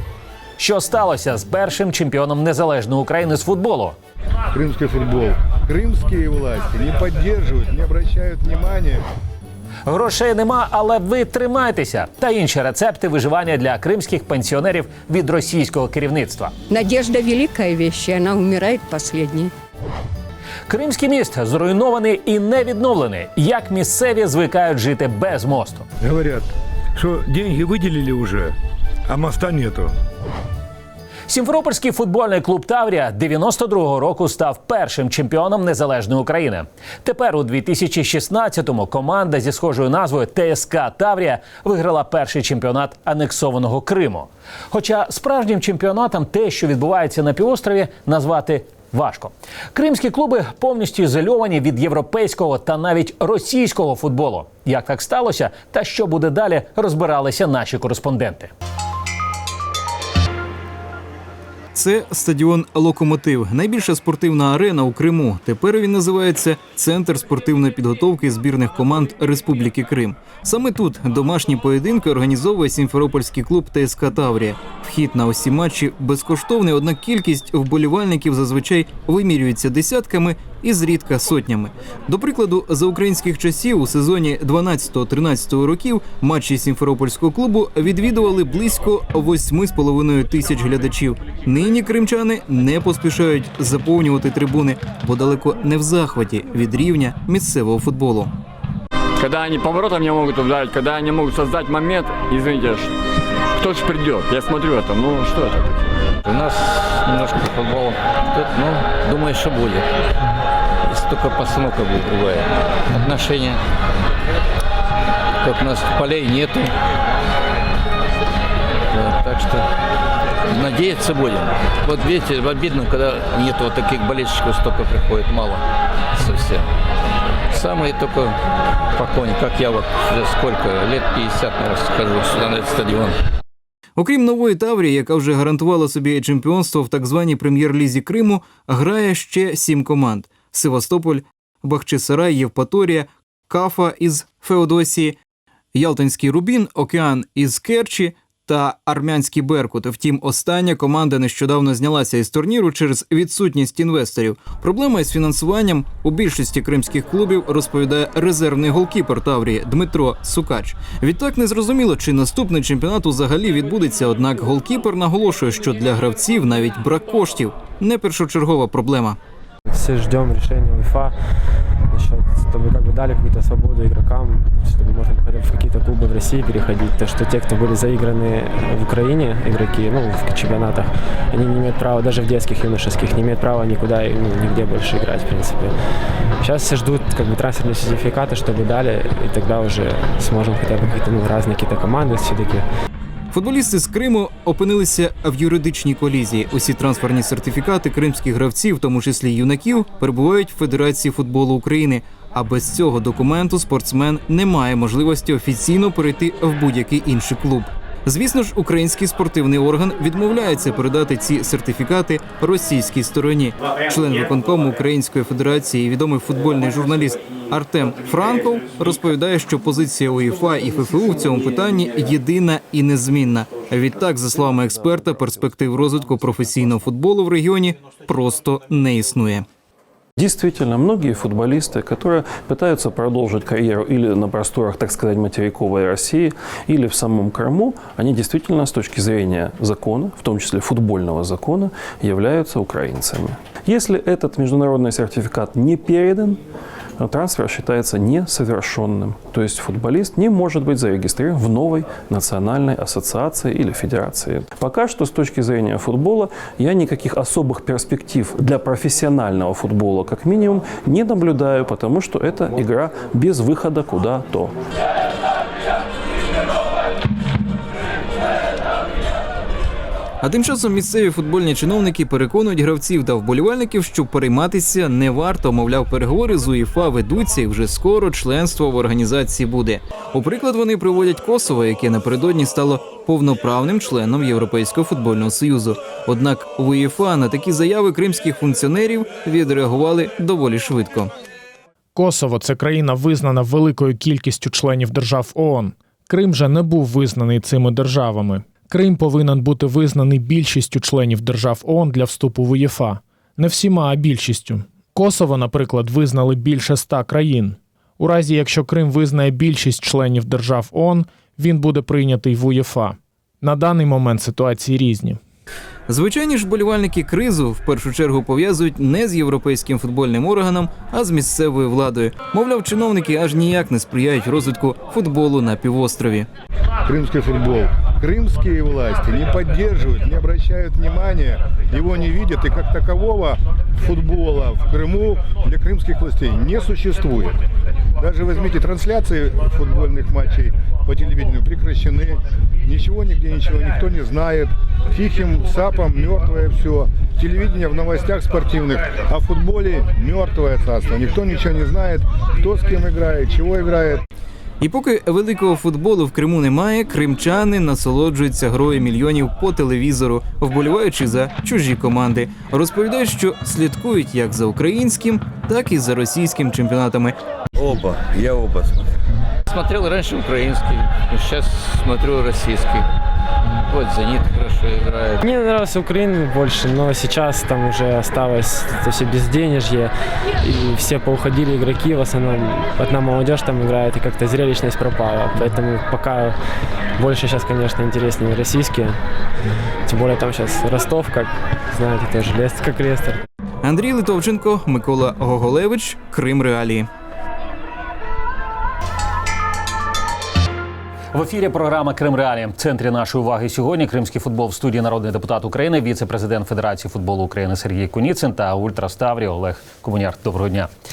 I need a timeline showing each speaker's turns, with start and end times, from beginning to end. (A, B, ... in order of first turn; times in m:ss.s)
0:00.6-0:04.0 A
0:04.5-0:09.0 B
0:09.9-0:16.5 A
0:16.7-0:19.5 C
0:20.7-0:25.8 A
0:26.0-0:28.5 B
0:29.1-0:29.9 B
0:31.3-0:58.5 A
1:01.7-1:38.3 D
1:39.2-1:42.9 E
1:43.5-1:45.9 E
1:46.2-1:49.9 F
1:50.8-1:53.6 F
1:55.4-1:56.8 F
1:58.9-1:59.7 F
2:00.5-2:05.6 F
2:06.2-2:06.7 F
2:07.5-2:08.4 F
2:09.0-2:13.2 F
2:14.0-2:25.2 D
2:25.7-2:49.2 D
2:49.7-2:51.1 G
2:51.9-3:05.7 G
3:06.4-3:12.7 G
3:13.3-3:49.5 D
3:50.2-4:06.4 H
4:07.0-4:24.6 H
4:30.2-4:51.1 D
4:52.0-5:15.2 I
5:15.9-5:26.3 D
5:26.9-5:37.4 B
5:38.0-5:54.0 B
5:54.6-6:07.2 D
6:07.6-6:08.5 F
6:09.5-6:12.9 F
6:13.7-6:15.2 F
6:15.2-6:26.4 G
6:27.0-6:29.0 G
6:29.9-6:33.3 G
6:33.6-6:36.9 D
6:41.1-6:50.7 A